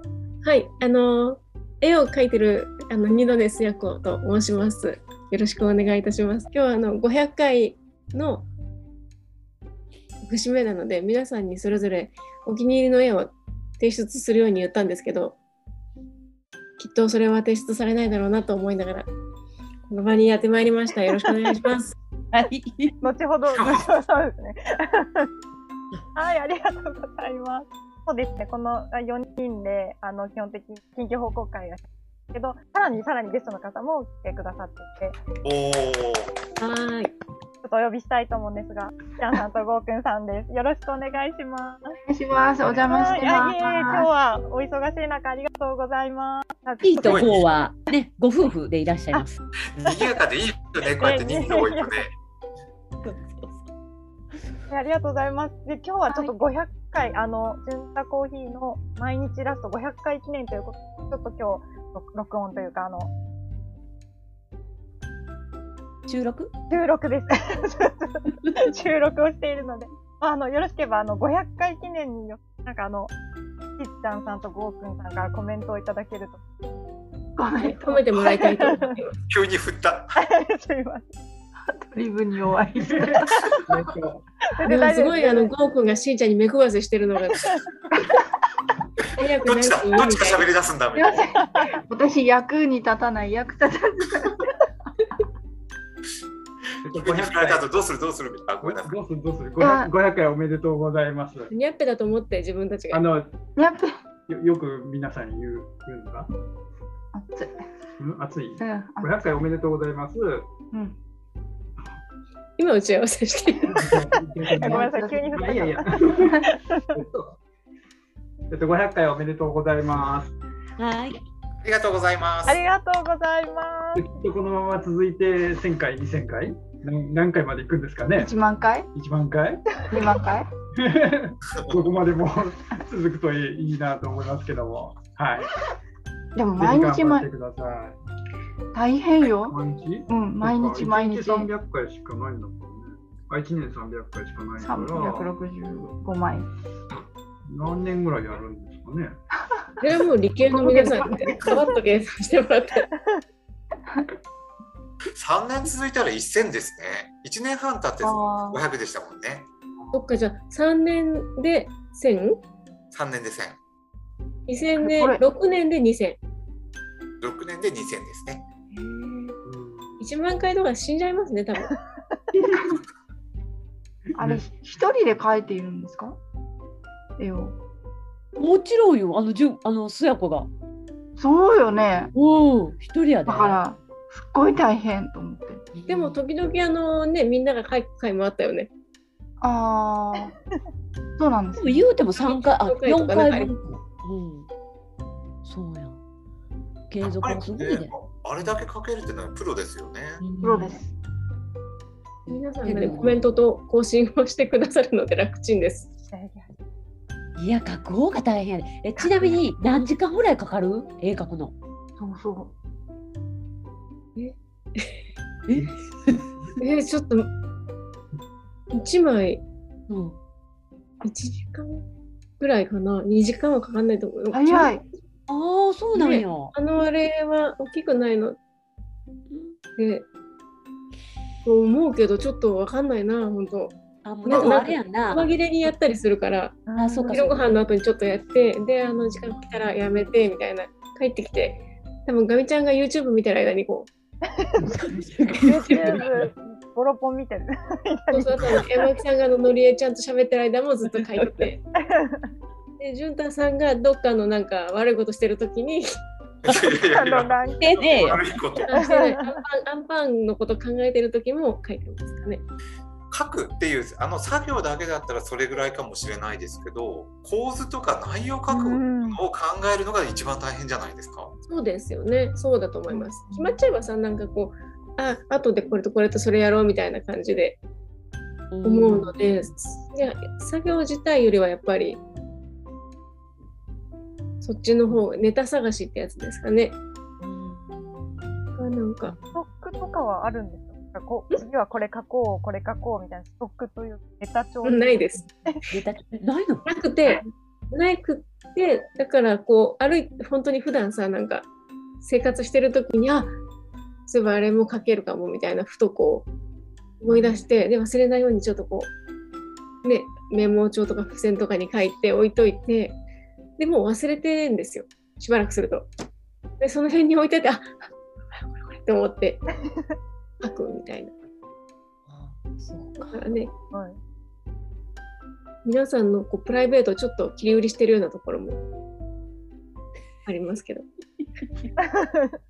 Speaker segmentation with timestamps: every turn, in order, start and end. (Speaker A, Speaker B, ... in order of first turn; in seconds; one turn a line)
Speaker A: 0.4-8.5
Speaker A: 10.3-15.4
Speaker A: 16.8-19.1
Speaker A: 19.9-22.0
Speaker B: 22.3-23.0
Speaker C: 23.0-25.3
Speaker D: 23.5-23.9
Speaker C: 26.2-35.2
Speaker D: 35.4-36.3
Speaker A: 36.6-37.1
Speaker C: 37.6-41.9
Speaker E: 42.1-44.1
Speaker C: 42.8-47.4
Speaker B: 46.8-49.4
Speaker D: 47.0-47.5
Speaker D: 49.8-52.1
Speaker C: 50.9-52.0
Speaker B: 53.0-53.6
Speaker C: 54.7-63.1
Speaker B: 56.1-56.4
Speaker B: 66.1-66.5
Speaker C: 66.7-73.1
Speaker C: 73.8-76.4
Speaker E: 77.4-78.0
Speaker A: 77.6-79.2
Speaker C: 78.5-78.9
Speaker D: 79.3-80.2
Speaker C: 80.2-81.1
Speaker E: 81.7-83.5
Speaker F: 82.8-84.2
Speaker C: 84.5-85.5
Speaker A: 84.7-87.4
Speaker A: 89.2-90.5
Speaker D: 89.4-91.2
Speaker E: 91.0-91.3
Speaker C: 91.3-91.7
Speaker E: 91.9-94.4
Speaker F: 96.8-97.7
Speaker D: 96.9-99.0
Speaker F: 98.6-101.5
Speaker E: 99.6-99.9
Speaker A: 101.5-103.0
Speaker F: 102.9-103.4
Speaker E: 103.6-104.0
Speaker F: 104.3-106.3
Speaker E: 107.1-107.7
Speaker F: 108.0-110.5
Speaker E: 108.6-109.1
Speaker E: 110.7-111.0
Speaker A: 112.6-113.8
Speaker F: 113.7-117.4
Speaker C: 114.5-115.9
Speaker F: 118.5-120.4
Speaker B: 120.8-121.2
Speaker D: 121.6-122.6
Speaker C: 122.5-124.1
Speaker F: 124.0-128.3
Speaker E: 128.2-128.9
Speaker F: 128.9-129.8
Speaker E: 129.9-130.5
Speaker F: 130.8-135.5
Speaker E: 136.4-137.3
Speaker F: 136.6-138.0
Speaker E: 138.7-139.6
Speaker F: 139.2-145.3
Speaker E: 140.1-141.5
Speaker E: 144.6-146.5
Speaker F: 147.5-149.2
Speaker A: 149.8-152.9
Speaker E: 150.4-151.4
Speaker D: 155.2-159.5
Speaker E: 158.0-158.7
Speaker A: 159.9-162.4
Speaker D: 162.9-163.6
Speaker A: 164.5-166.2
Speaker E: 164.8-165.2
Speaker D: 167.2-168.4
Speaker E: 168.8-169.3
Speaker F: 169.4-170.1
Speaker A: 170.0-171.7
Speaker E: 172.4-172.8
Speaker F: 174.1-174.5
Speaker E: 174.2-176.2
Speaker E: 177.2-177.6
Speaker B: 178.4-180.5
Speaker E: 181.2-182.1
Speaker B: 182.1-183.6
Speaker E: 183.3-185.6
Speaker B: 185.7-186.2
Speaker A: 185.9-188.7
Speaker E: 189.4-190.3
Speaker E: 191.2-191.9
Speaker B: 191.5-194.5
Speaker A: 192.1-193.5
Speaker B: 195.4-196.0
Speaker B: 196.9-197.9
Speaker D: 197.2-200.2
Speaker B: 200.2-200.8
Speaker E: 200.4-200.9
Speaker B: 202.3-203.2
Speaker A: 202.3-205.9
Speaker C: 206.1-206.5
Speaker B: 207.4-211.5
Speaker C: 209.0-209.3
Speaker E: 212.0-212.5
Speaker A: 214.2-215.0
Speaker B: 215.5-216.2
Speaker A: 216.6-217.3
Speaker A: 218.7-219.4
Speaker B: 219.9-220.2
Speaker A: 221.0-221.8
Speaker A: 222.4-224.8
Speaker E: 224.3-224.8
Speaker B: 225.3-226.5
Speaker A: 225.9-228.4
Speaker B: 229.3-229.6
Speaker A: 229.8-230.1
Speaker A: 231.4-243.9
Speaker B: 234.0-235.3
Speaker C: 236.7-237.2
Speaker B: 236.8-237.6
Speaker B: 244.7-246.0
Speaker C: 245.4-248.6
Speaker A: 248.1-251.6
Speaker B: 250.9-251.5
Speaker C: 251.8-252.3
Speaker A: 252.8-255.8
Speaker D: 256.4-258.7
Speaker C: 256.8-259.4
Speaker B: 257.6-258.3
Speaker A: 258.7-262.4
Speaker D: 263.1-271.3
Speaker C: 268.5-269.2
Speaker A: 271.5-277.6
Speaker C: 272.9-273.6
Speaker B: 278.5-279.5
Speaker A: 278.6-282.0
Speaker A: 284.4-286.8
Speaker B: 287.2-288.4
Speaker A: 288.6-289.1
Speaker B: 289.1-289.4
Speaker C: 289.3-295.6
Speaker A: 294.6-295.2
Speaker B: 295.7-296.6
Speaker A: 296.6-301.5
Speaker A: 302.0-303.3
Speaker A: 304.1-306.3
Speaker A: 307.0-308.9
Speaker B: 307.1-307.4
Speaker A: 309.8-313.0
Speaker A: 313.6-315.9
Speaker A: 316.6-317.8
Speaker A: 318.4-319.4
Speaker A: 320.4-321.1
Speaker B: 322.1-323.2
Speaker A: 323.0-323.5
Speaker C: 323.7-324.0
Speaker A: 325.6-328.6
Speaker A: 330.3-330.9
Speaker B: 331.2-331.7
Speaker C: 332.0-332.3